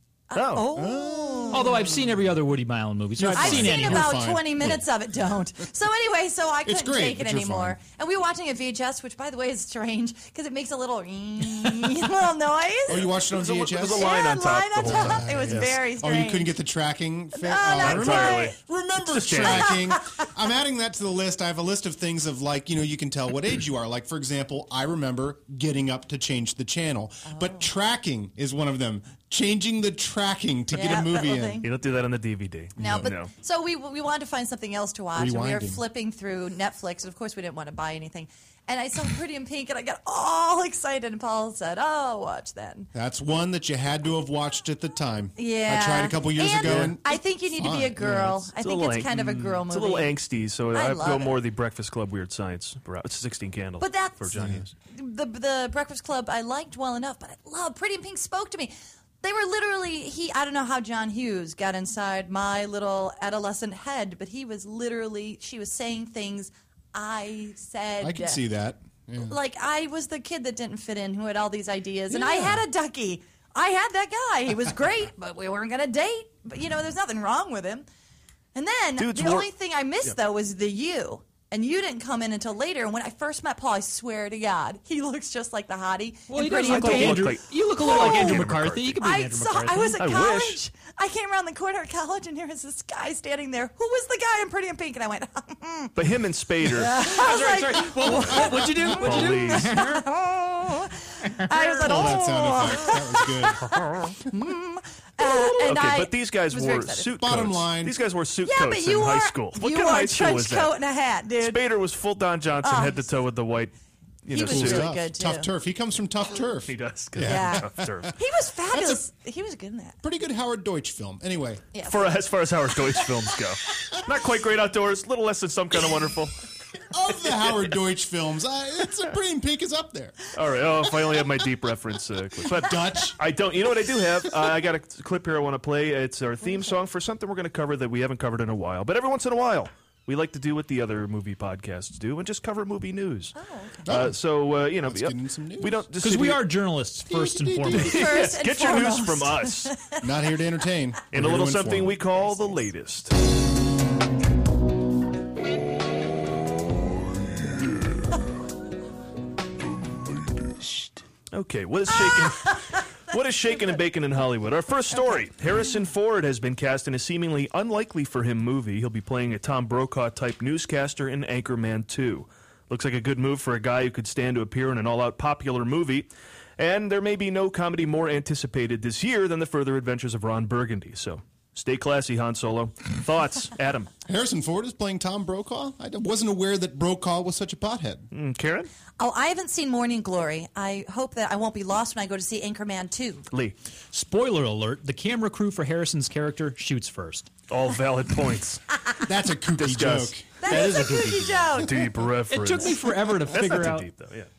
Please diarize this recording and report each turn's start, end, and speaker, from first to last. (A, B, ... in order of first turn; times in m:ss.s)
0:00.3-0:01.8 A
0:00.3-0:00.7 B
0:00.7-0:02.1 C
0:01.5-0:04.2 D
0:03.2-0:04.8 C
0:03.3-0:13.1 A
0:06.6-0:07.8 C
0:12.9-0:14.1 C
0:13.1-0:15.7 B
0:13.8-0:16.5 A
0:14.8-0:31.6 C
0:17.3-0:18.6 A
0:17.8-0:19.8 B
0:19.4-0:20.0 A
0:27.3-0:27.7 A
0:30.7-0:31.7 A
0:31.6-0:33.3 B
0:32.8-0:33.1 C
0:32.8-0:42.9 A
0:35.1-0:35.8 C
0:42.9-0:48.5 C
0:45.4-0:50.1 A
0:46.6-0:46.9 B
0:48.6-0:54.7 B
0:49.1-0:49.6 C
0:50.7-0:51.4 A
0:53.8-1:08.4 A
0:54.3-0:54.6 C
1:08.0-1:09.3 C
1:09.2-1:17.9 A
1:12.1-1:12.6 C
1:18.5-1:28.4 A
1:19.0-1:19.5 B
1:26.3-1:30.2 D
1:26.6-1:29.0 B
1:29.0-1:35.9 A
1:30.0-1:30.6 B
1:36.0-1:36.9 B
1:36.7-1:47.1 A
1:36.8-1:40.1 D
1:38.3-1:39.0 C
1:39.0-1:39.7 B
1:41.2-1:42.2 D
1:41.8-1:43.8 C
1:45.4-1:50.8 B
1:47.2-1:48.0 C
1:48.4-1:51.6 A
1:51.4-1:53.7 B
1:52.6-1:53.0 A
1:54.2-1:54.9 B
1:54.3-1:55.5 A
1:54.3-1:58.1 C
1:56.6-1:58.1 B
1:57.2-1:57.6 A
1:58.2-2:00.0 A
1:58.7-1:59.0 C
2:00.0-2:01.6 C
2:01.7-2:02.1 A
2:01.8-2:06.4 B
2:06.9-2:10.3 C
2:10.3-2:23.3 B
2:12.5-2:13.2 C
2:16.4-2:16.8 A
2:23.4-2:23.8 A
2:23.8-2:24.2 C
2:23.9-2:26.4 B
2:24.8-2:25.8 C
2:26.0-2:27.9 D
2:27.0-2:28.0 C
2:27.7-2:30.1 A
2:27.7-2:29.7 B
2:30.0-2:32.0 C
2:31.1-2:33.1 B
2:41.3-3:03.9 B
3:04.1-3:08.1 C
3:08.1-3:08.7 B
3:09.0-3:13.2 A
3:13.9-3:17.3 D
3:17.5-3:18.6 B
3:19.0-3:20.6 C
3:19.6-3:20.1 B
3:20.4-3:21.8 A
3:20.5-3:21.5 D
3:21.6-3:24.3 B
3:22.3-3:23.9 D